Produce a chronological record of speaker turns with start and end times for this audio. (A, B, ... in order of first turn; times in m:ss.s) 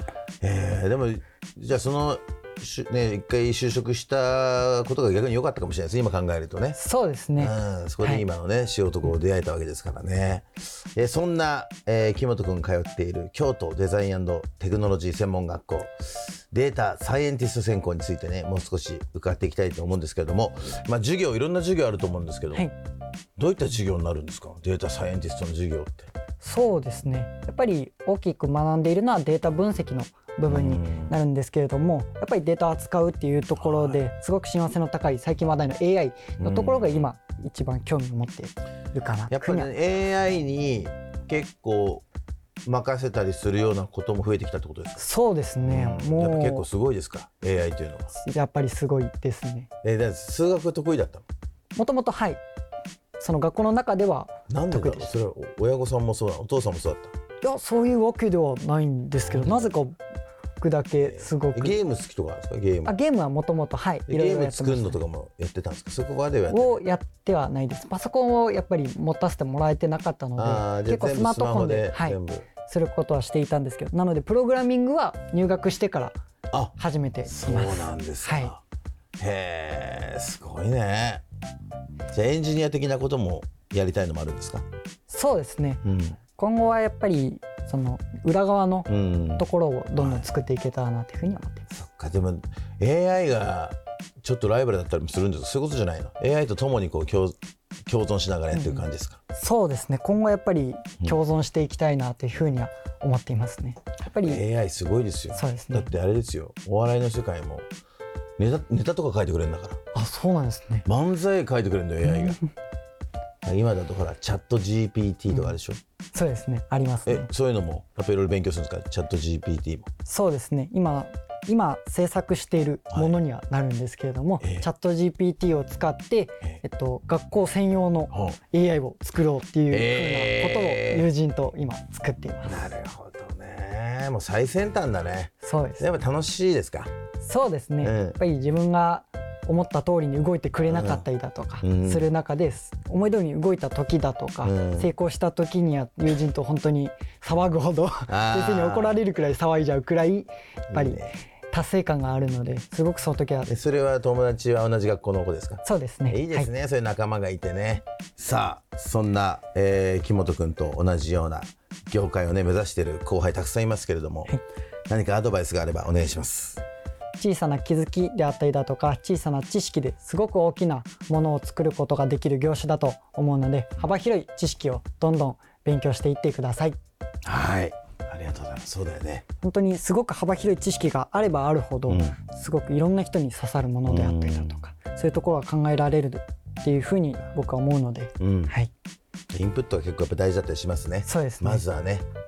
0:00.4-0:06.8 A
0:06.7-0:08.2 B
0:07.4-0:22.7 A
0:23.4-0:26.1 A
0:26.4-0:39.7 B
0:30.5-0:31.1 A
0:33.6-0:34.0 A
0:36.4-0:37.1 A
0:39.3-0:42.0 A
0:42.6-0:45.0 A
0:45.0-0:46.7 B
0:45.6-0:48.1 A
0:48.1-0:49.7 B
0:49.8-0:51.2 A
0:51.7-0:52.4 B
0:53.2-0:55.1 B
0:54.5-0:57.1 A
0:57.4-1:00.0 B
0:59.2-0:59.7 A
1:00.6-1:01.8 B
1:01.0-1:02.9 A
1:02.8-1:05.0 B
1:04.1-1:06.8 A
1:06.5-1:16.2 B
1:10.4-1:12.5 A
1:16.7-1:18.5 B
1:17.3-1:18.6 A
1:19.2-1:21.2 A
1:22.1-1:24.6 A
1:25.1-1:25.8 B
1:25.8-1:26.2 A
1:26.4-1:31.7 B
1:28.9-1:30.2 A
1:31.7-1:39.2 A
1:38.5-1:44.4 B
1:44.2-1:47.7 A
1:45.3-1:45.9 B
1:48.4-1:49.8 A
1:49.9-1:50.8 B
1:50.8-1:52.4 A
1:52.0-1:52.4 B
1:53.4-1:55.8 A
1:56.1-1:57.3 B
1:57.0-1:59.9 A
2:00.0-2:12.7 B
2:02.9-2:03.2 A
2:04.4-2:04.6 A
2:08.1-2:08.4 A
2:09.7-2:11.1 A
2:12.4-2:16.9 A
2:15.4-2:15.8 B
2:17.2-2:33.5 B
2:17.8-2:18.2 A
2:20.6-2:21.0 A
2:21.6-2:22.1 A
2:24.4-2:24.9 A
2:28.1-2:29.0 A
2:30.7-2:31.1 A
2:33.5-2:44.3 A
2:35.6-2:36.5 B
2:44.9-2:46.6 A
2:47.2-2:56.8 B
2:57.2-2:59.2 A
2:59.4-3:08.7 B
3:01.9-3:02.2 A
3:03.8-3:04.6 A
3:08.2-3:08.5 A
3:09.3-3:12.0 A
3:11.0-3:11.6 B